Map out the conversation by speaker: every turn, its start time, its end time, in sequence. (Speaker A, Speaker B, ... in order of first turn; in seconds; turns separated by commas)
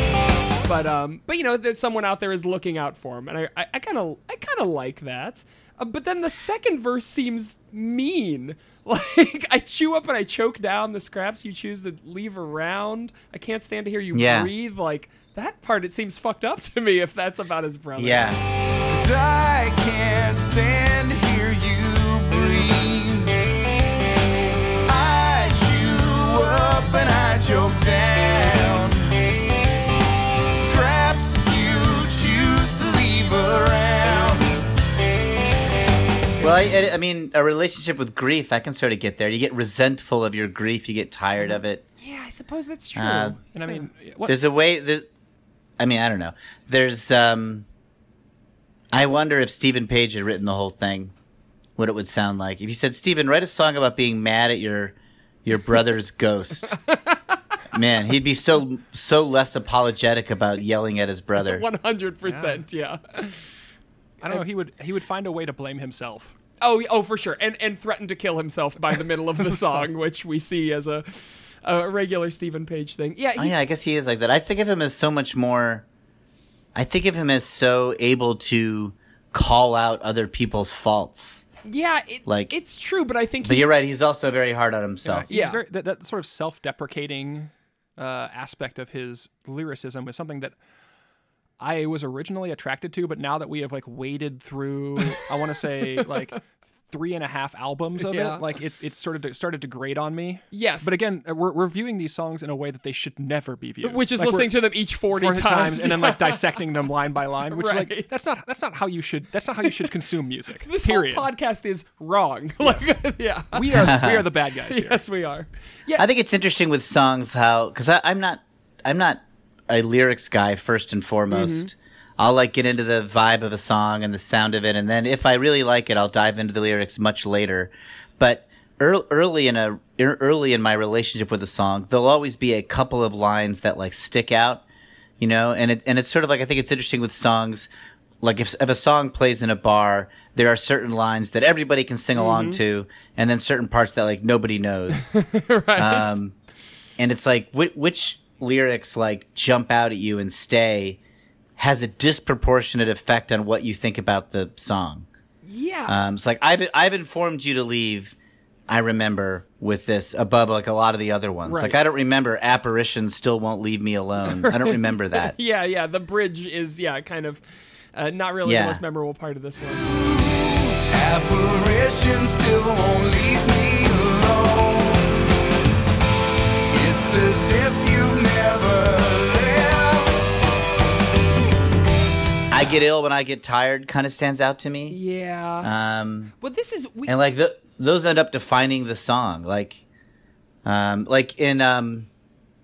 Speaker A: 0.7-18.4, Speaker B: 14.1-14.5, Speaker B: 18.0-18.4, Speaker C: 18.9-23.4, Speaker C: 24.9-29.1, Speaker C: 30.5-34.6, Speaker B: 36.4-41.8, Speaker A: 42.0-43.8, Speaker B: 43.0-43.4, Speaker D: 43.5-44.4, Speaker B: 44.2-45.1, Speaker B: 45.8-47.6, Speaker B: 48.9-51.1, Speaker B: 51.8-56.8, Speaker A: 56.7-57.4, Speaker B: 57.7-61.6, Speaker A: 61.4-63.4, Speaker D: 62.2-62.6, Speaker D: 64.2-66.3, Speaker A: 66.6-73.5, Speaker D: 69.4-69.9, Speaker B: 73.4-75.8, Speaker B: 76.8-81.5, Speaker A: 81.7-83.7, Speaker B: 82.3-82.5, Speaker B: 83.4-85.3, Speaker D: 85.0-90.6, Speaker A: 85.3-85.6, Speaker D: 91.6-111.3, Speaker A: 98.0-98.4, Speaker A: 100.5-100.9, Speaker A: 103.8-106.5, Speaker A: 107.5-108.1, Speaker A: 109.6-109.9, Speaker A: 110.6-114.0, Speaker D: 113.5-115.0, Speaker B: 113.7-114.3, Speaker A: 114.7-116.0, Speaker B: 116.0-134.6, Speaker A: 121.3-121.7, Speaker B: 135.2-137.7, Speaker B: 138.2-145.1, Speaker A: 142.2-142.6, Speaker A: 145.0-146.2, Speaker B: 145.8-146.3, Speaker B: 147.0-151.0, Speaker B: 151.6-155.1, Speaker A: 155.4-156.0, Speaker B: 155.9-158.2, Speaker B: 158.7-165.3, Speaker A: 161.4-161.8, Speaker A: 164.3-167.4, Speaker A: 167.9-169.9, Speaker B: 168.4-168.8, Speaker C: 169.8-175.1, Speaker C: 176.7-180.2, Speaker B: 182.5-185.0, Speaker A: 184.9-185.7, Speaker B: 185.6-186.3, Speaker A: 186.4-187.1, Speaker B: 187.1-189.8, Speaker B: 190.7-192.1